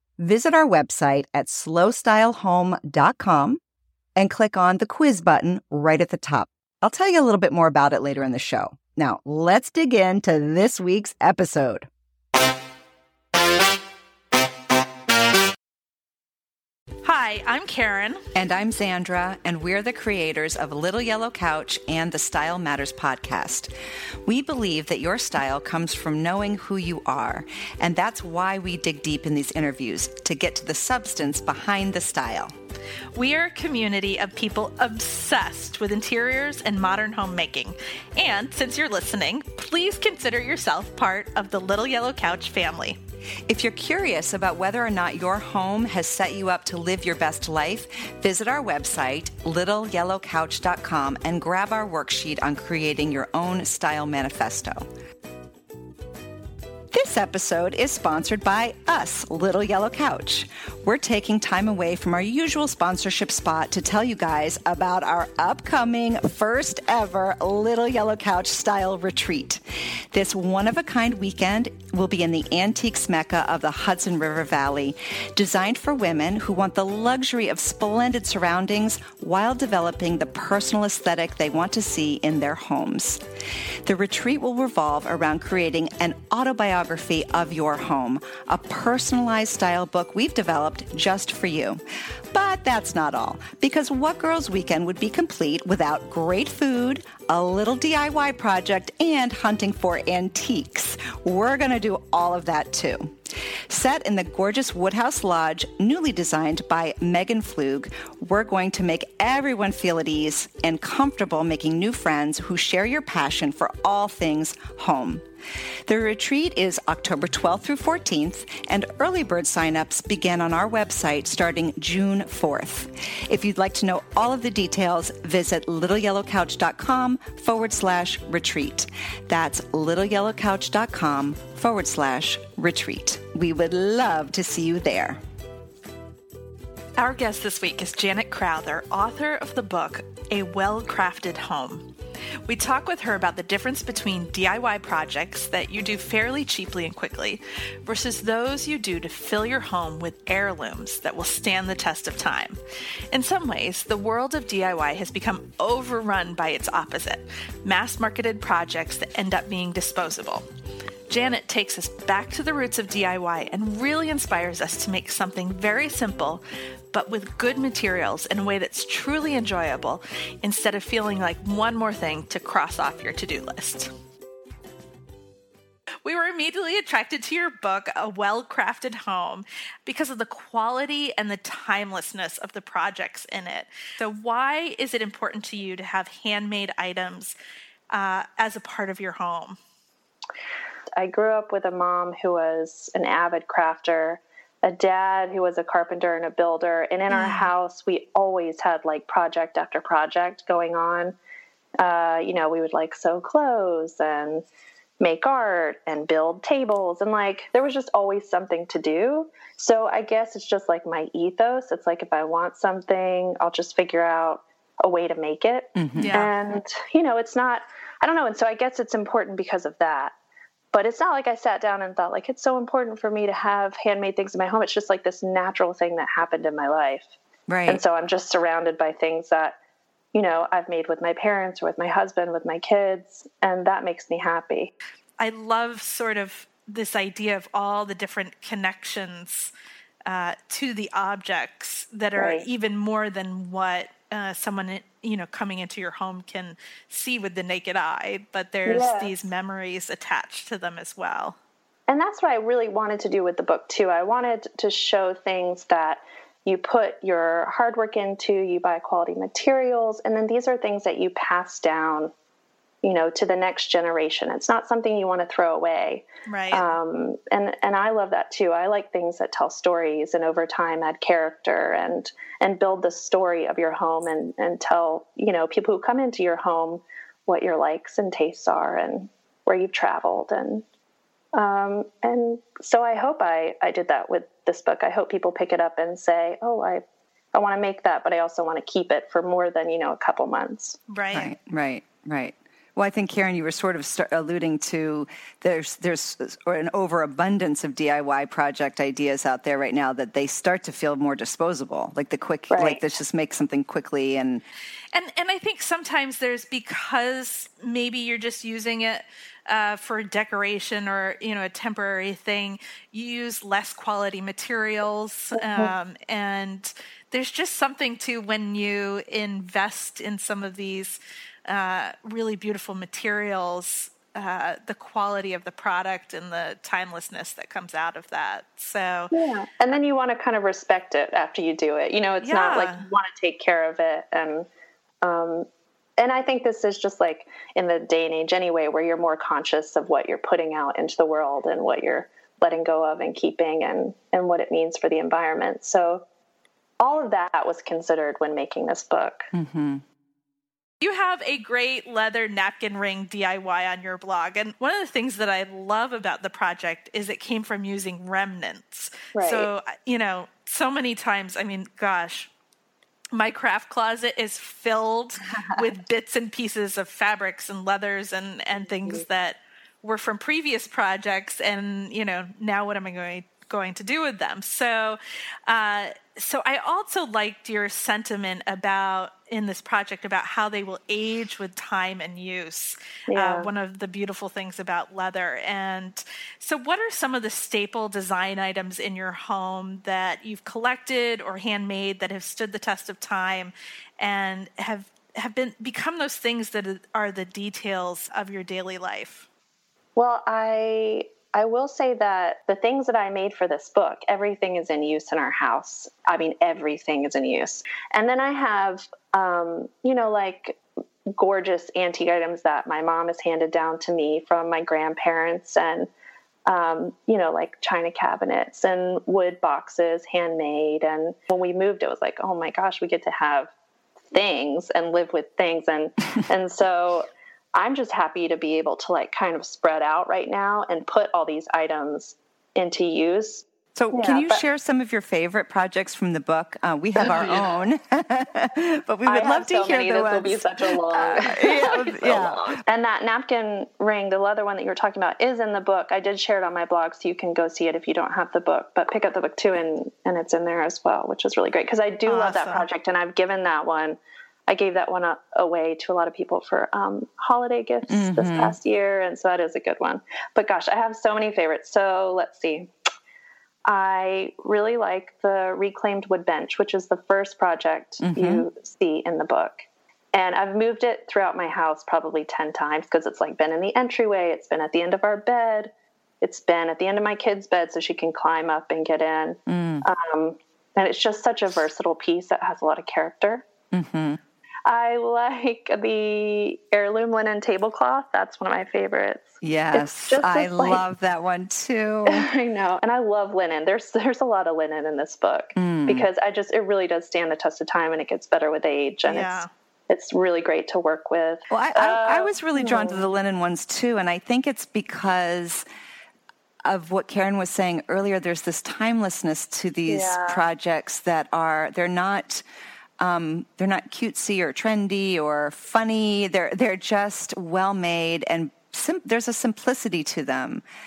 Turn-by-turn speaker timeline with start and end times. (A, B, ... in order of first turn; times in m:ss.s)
0:00.2-0:03.6 A
0:04.2-0:11.9 A
0:17.0-0:18.2 B
0:18.4-0:23.7 A
0:24.3-0:32.5 A
0:33.2-0:43.0 B
0:43.5-0:54.8 A
0:56.9-1:09.6 A
1:10.1-1:23.2 A
1:23.8-1:31.8 A
1:32.3-1:43.1 A
1:43.7-1:55.2 A
1:55.9-2:15.2 A
2:17.0-2:21.9 B
2:22.5-2:32.6 B
2:33.1-2:40.5 B
2:41.1-2:53.9 B
2:56.0-3:07.4 B
3:07.9-3:09.6 B
3:11.0-3:21.2 C
3:17.1-3:17.5 B
3:21.8-3:24.5 C
3:25.0-3:40.1 C
3:35.8-3:36.2 A
3:36.0-3:36.3 B
3:40.7-3:47.1 C
3:47.5-3:47.8 A
3:47.7-3:49.6 C
3:50.1-3:54.7 C
3:55.2-3:59.5 B
4:00.1-4:11.4 B
4:02.2-4:02.5 C
4:08.6-4:09.3 C
4:11.9-4:22.1 C
4:22.8-4:40.6 C
4:26.3-4:26.7 B
4:41.3-4:50.8 C
4:50.9-4:51.3 B
4:51.1-5:04.4 A
5:02.5-5:03.0 C
5:04.9-5:29.1 B
5:15.4-5:15.7 C
5:29.1-5:34.5 C
5:32.2-5:32.8 B
5:35.0-5:35.5 C
5:36.0-5:46.0 C
5:46.8-5:49.3 C
5:49.3-5:49.8 A
5:50.8-6:02.3 B
5:59.2-5:59.5 C
6:03.1-6:39.3 B
6:23.1-6:23.5 C
6:40.0-6:50.6 C
6:51.2-6:55.9 C
6:56.5-7:03.5 C
7:04.1-7:14.4 C
7:13.8-7:22.6 A
7:17.0-7:17.4 C
7:19.1-7:42.7 C
7:32.1-7:32.7 B
7:37.9-7:38.6 A
7:43.7-8:03.4 C
7:48.0-7:48.5 A
7:59.5-7:59.8 A
8:03.7-8:04.2 A
8:04.7-8:10.8 C
8:09.4-8:12.3 A
8:12.1-8:23.1 C
8:15.6-8:16.1 A
8:19.0-8:19.5 B
8:21.5-8:25.6 A
8:26.6-8:32.4 A
8:29.9-8:30.4 C
8:33.0-8:40.6 A